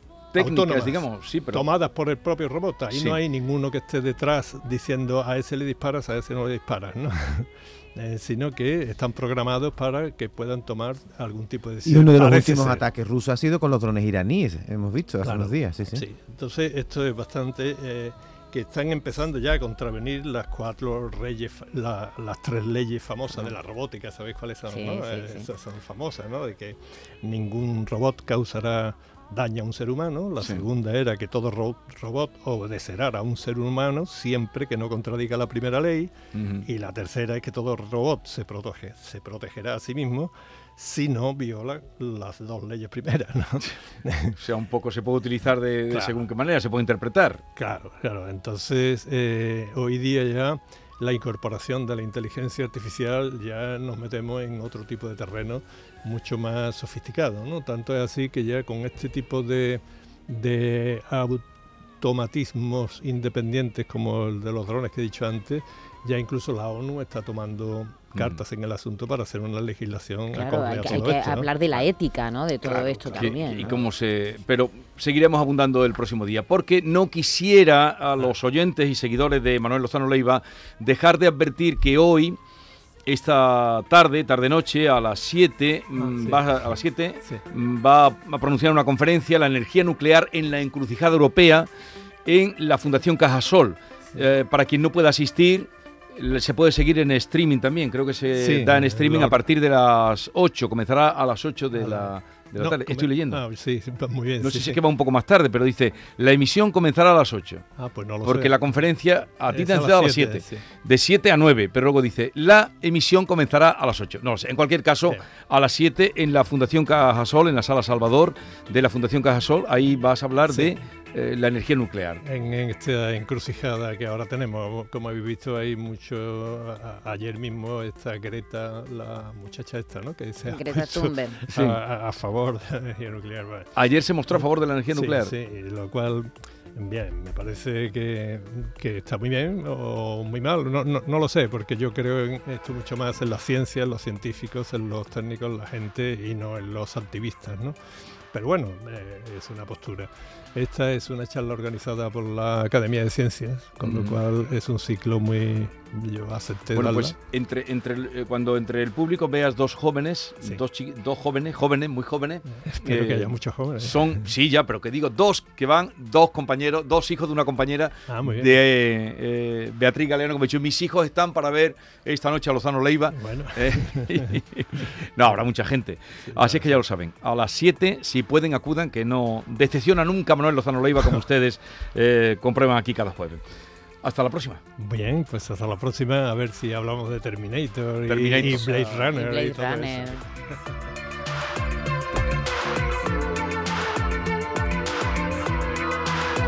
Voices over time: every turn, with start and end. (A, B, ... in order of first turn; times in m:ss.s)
0:00.3-0:01.6 A
0:00.4-0:12.8 B
0:02.9-0:03.2 A
0:11.8-0:16.0 C
0:15.2-0:44.4 B
0:24.7-0:25.5 D
0:36.3-0:36.7 A
0:44.4-0:47.4 A
0:45.9-0:46.2 B
0:47.6-1:01.5 B
1:02.0-1:11.8 B
1:08.1-1:08.4 A
1:10.3-1:13.7 D
1:12.6-1:13.9 B
1:12.7-1:22.4 A
1:23.1-1:31.7 A
1:26.0-1:26.4 B
1:32.2-1:43.4 A
1:38.4-1:39.4 B
1:41.7-1:44.8 B
1:44.4-1:47.6 A
1:47.8-1:48.6 B
1:48.2-2:02.2 A
1:49.5-1:50.6 B
2:00.5-2:00.8 B
2:02.2-2:13.7 B
2:10.5-2:11.4 D
2:11.5-2:11.8 A
2:13.8-2:15.3 A
2:14.3-2:27.8 B
2:28.3-2:37.2 B
2:33.8-2:34.2 A
2:36.7-3:03.4 A
2:42.5-2:44.3 B
2:48.1-2:48.6 B
2:53.1-2:54.4 B
2:56.3-2:56.8 B
3:04.0-3:04.6 A
3:04.8-3:10.4 B
3:08.1-3:08.9 A
3:08.8-3:10.2 D